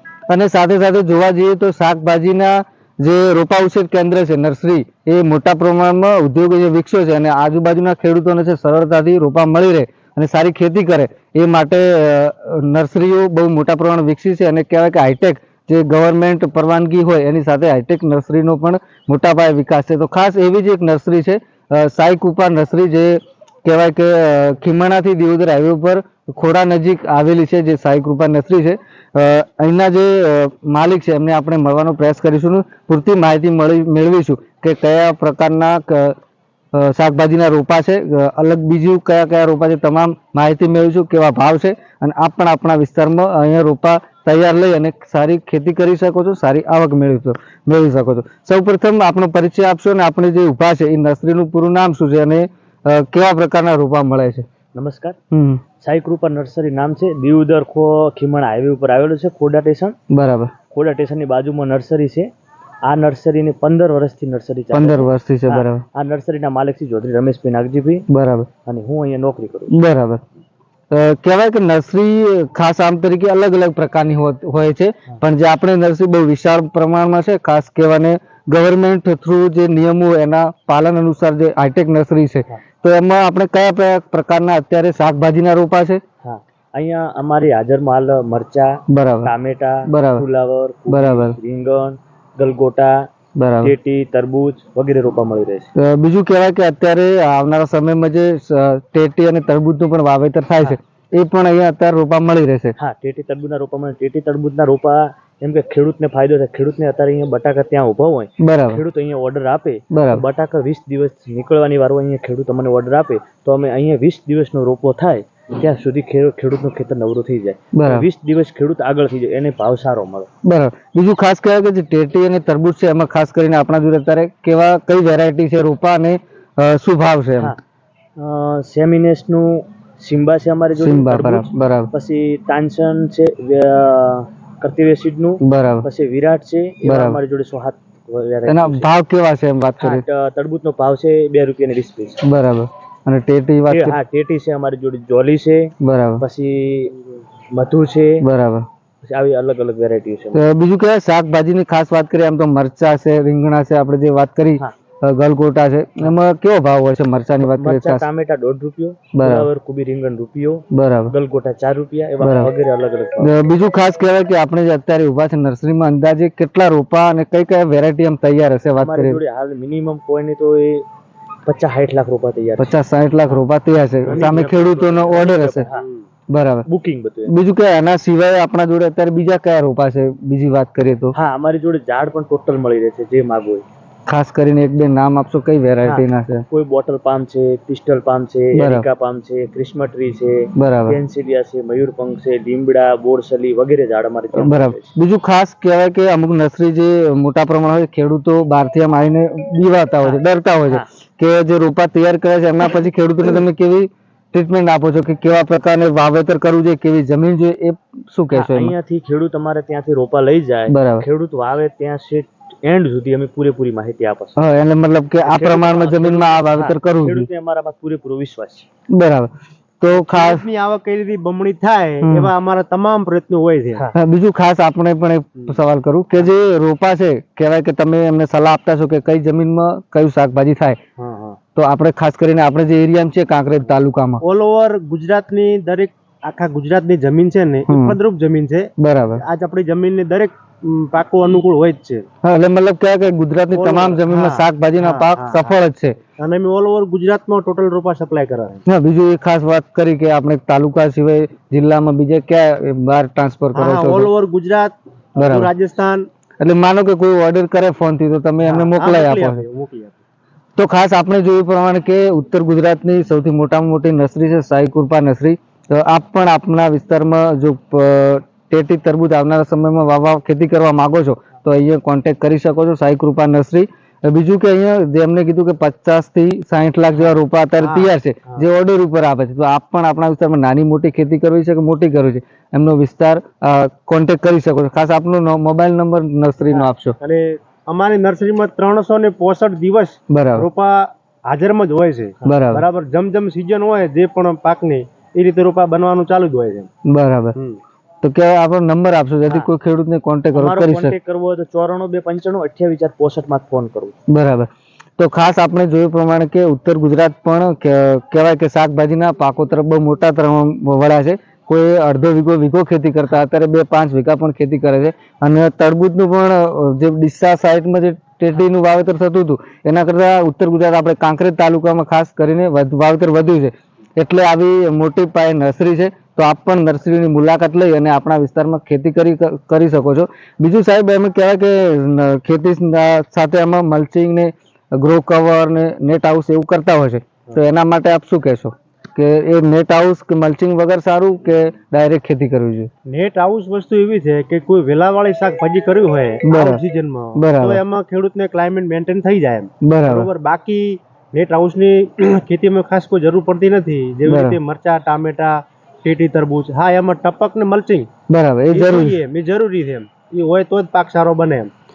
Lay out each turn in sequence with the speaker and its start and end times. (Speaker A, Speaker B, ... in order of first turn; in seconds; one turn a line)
Speaker A: 0.3-36.2
Speaker A: 36.7-54.5
Speaker B: 54.8-55.2
Speaker A: 55.3-55.6
Speaker B: 55.8-60.0
Speaker A: 60.1-60.5
Speaker B: 60.7-62.3
Speaker B: 62.8-68.0
Speaker A: 64.7-65.8
Speaker A: 68.1-68.5
Speaker B: 68.7-69.8
Speaker A: 69.7-70.2
Speaker A: 70.9-86.0
Speaker B: 86.2-93.1
Speaker A: 88.9-89.3
Speaker A: 89.9-90.2
Speaker A: 90.9-91.4
Speaker A: 93.4-93.7
Speaker B: 93.6-95.7
Speaker A: 95.8-102.8
Speaker B: 102.8-120.3
Speaker A: 108.4-108.8
Speaker A: 109.9-110.2
Speaker A: 117.7-118.1
Speaker A: 120.4-127.5
Speaker B: 128.2-138.9
Speaker A: 130.8-131.9
Speaker A: 135.4-135.9
Speaker A: 136.8-137.2
Speaker A: 138.5-140.0
Speaker B: 139.8-142.2
Speaker A: 142.2-144.0
Speaker B: 143.7-146.9
Speaker A: 145.8-146.2
Speaker B: 147.5-148.2
Speaker A: 148.2-148.7
Speaker B: 149.0-150.4
Speaker A: 150.3-158.1
Speaker B: 157.4-163.4
Speaker A: 159.2-159.5
Speaker A: 160.7-161.1
Speaker A: 162.2-162.5
Speaker A: 163.2-169.2
Speaker B: 168.8-170.8
Speaker B: 171.5-172.8
Speaker A: 172.6-175.7
Speaker B: 174.0-175.8
Speaker C: 175.8-176.0
Speaker A: 176.3-176.7
Speaker B: 176.7-177.3
Speaker A: 177.3-181.2
Speaker B: 181.1-183.7
Speaker A: 184.1-186.4
Speaker B: 185.8-194.9
Speaker A: 188.6-188.9
Speaker A: 190.6-191.0
Speaker A: 194.4-208.7
Speaker B: 200.0-200.9
Speaker B: 208.3-214.4
Speaker A: 210.7-211.1
Speaker A: 214.4-217.3
Speaker B: 215.2-218.7
Speaker A: 218.9-220.4
Speaker C: 219.9-223.9
Speaker A: 222.0-222.3
Speaker A: 223.9-230.8
Speaker C: 231.0-231.4
Speaker A: 231.6-234.2
Speaker C: 234.2-242.1
Speaker A: 237.7-238.0
Speaker A: 238.8-239.2
Speaker A: 242.2-246.0
Speaker C: 243.5-245.5
Speaker C: 246.2-248.6
Speaker A: 248.7-254.1
Speaker C: 253.5-256.1
Speaker A: 255.2-255.5
Speaker A: 256.4-259.4
Speaker C: 258.4-260.0
Speaker A: 260.6-287.0
Speaker C: 277.6-278.4
Speaker C: 286.5-296.7
Speaker A: 290.1-290.5
Speaker A: 292.3-292.6
Speaker A: 296.9-297.4
Speaker A: 298.0-300.9
Speaker B: 300.3-303.9
Speaker A: 304.1-342.7
Speaker C: 342.9-357.9
Speaker A: 346.2-346.6
Speaker A: 347.1-347.6
Speaker A: 349.6-350.1
Speaker A: 354.1-354.4
Speaker A: 358.1-359.0
Speaker C: 358.5-361.5